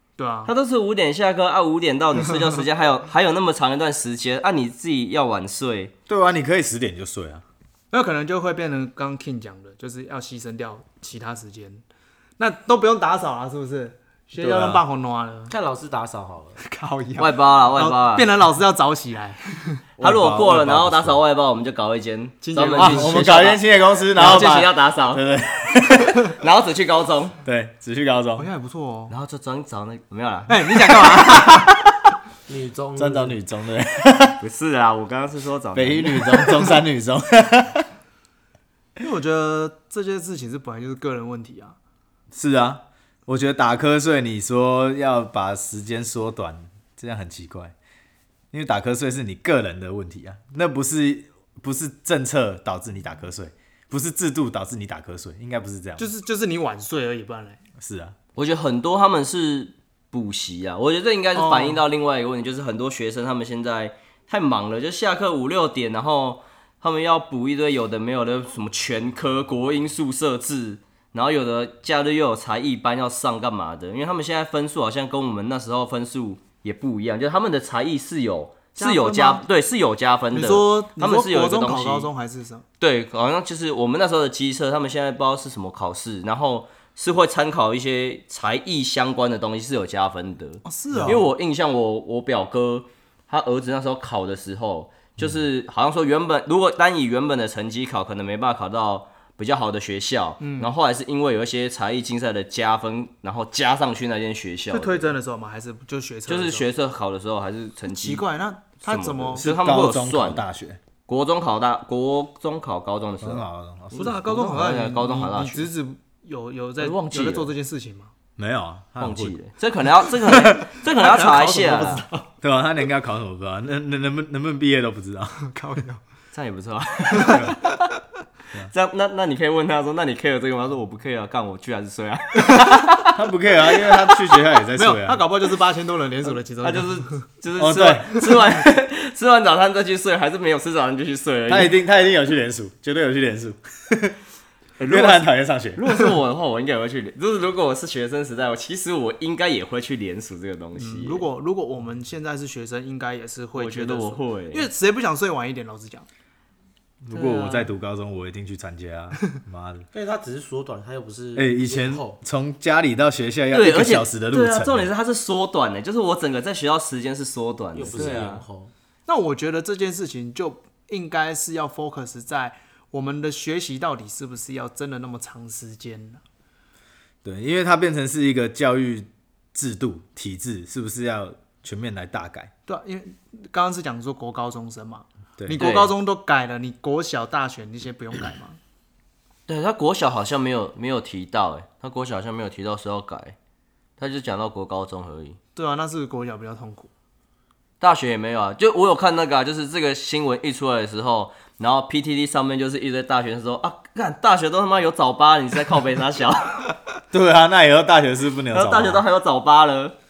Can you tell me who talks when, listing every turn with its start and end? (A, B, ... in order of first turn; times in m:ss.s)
0:00.2-0:00.5 A
0:00.4-0:05.9 B
0:06.1-0:07.4 C
0:07.9-0:11.8 A
0:12.4-0:15.5 A
0:14.4-0:14.8 C
0:15.5-0:16.6 D
0:16.6-0:19.8 A
0:17.2-0:18.3 B
0:20.0-0:21.2 C
0:20.0-0:23.6 B
0:22.4-0:23.4 A
0:22.8-0:26.3 C
0:24.1-0:25.2 B
0:26.4-0:27.4 B
0:27.4-0:28.5 C
0:28.4-0:29.1 A
0:29.1-0:30.9 B
0:30.5-0:31.8 A
0:32.5-0:33.4 D
0:33.0-0:34.4 C
0:34.4-0:36.6 B
0:35.8-0:37.9 C
0:39.0-0:41.8 A
0:42.3-0:47.7 C
0:48.5-0:56.1 C
0:56.0-0:57.6 A
0:57.8-0:58.2 C
0:58.4-1:22.1 B
1:01.4-1:01.8 A
1:18.8-1:19.4 A
1:20.3-1:22.6 A
1:22.8-1:45.1 B
1:30.6-1:31.2 A
1:30.9-1:31.2 C
1:40.4-1:40.7 A
1:44.7-1:46.7 A
1:46.3-1:48.2 B
1:47.9-1:49.5 A
1:48.8-1:50.4 B
1:49.4-1:50.8 C
1:51.1-1:55.7 B
1:53.2-1:54.1 C
1:53.9-1:58.1 A
1:56.8-1:57.5 B
1:58.4-1:59.4 C
1:59.0-2:02.0 B
2:00.9-2:02.3 A
2:02.4-2:05.5 C
2:05.5-2:06.0 A
2:06.3-2:07.7 B
2:07.3-2:07.6 C
2:08.7-2:13.2 B
2:13.1-2:15.2 C
2:14.8-2:17.2 A
2:16.6-2:21.8 B
2:17.6-2:18.2 C
2:21.5-2:24.2 C
2:24.8-2:31.3 B
2:24.9-2:25.8 C
2:30.8-2:36.1 A
2:33.6-2:34.7 B
2:37.0-2:39.9 C
2:37.1-2:37.7 B
2:39.9-2:42.2 D
2:41.4-2:44.9 C
2:43.5-2:48.4 B
2:47.7-2:48.7 D
2:47.8-2:48.2 C
2:49.1-2:56.2 A
2:57.2-3:02.5 C
3:02.7-3:08.6 A
3:05.6-3:05.9 B
3:09.5-3:13.4 B
3:14.0-3:15.4 B
3:15.6-3:16.9 A
3:17.8-3:26.7 B
3:27.1-3:29.0 C
3:28.5-3:30.0 B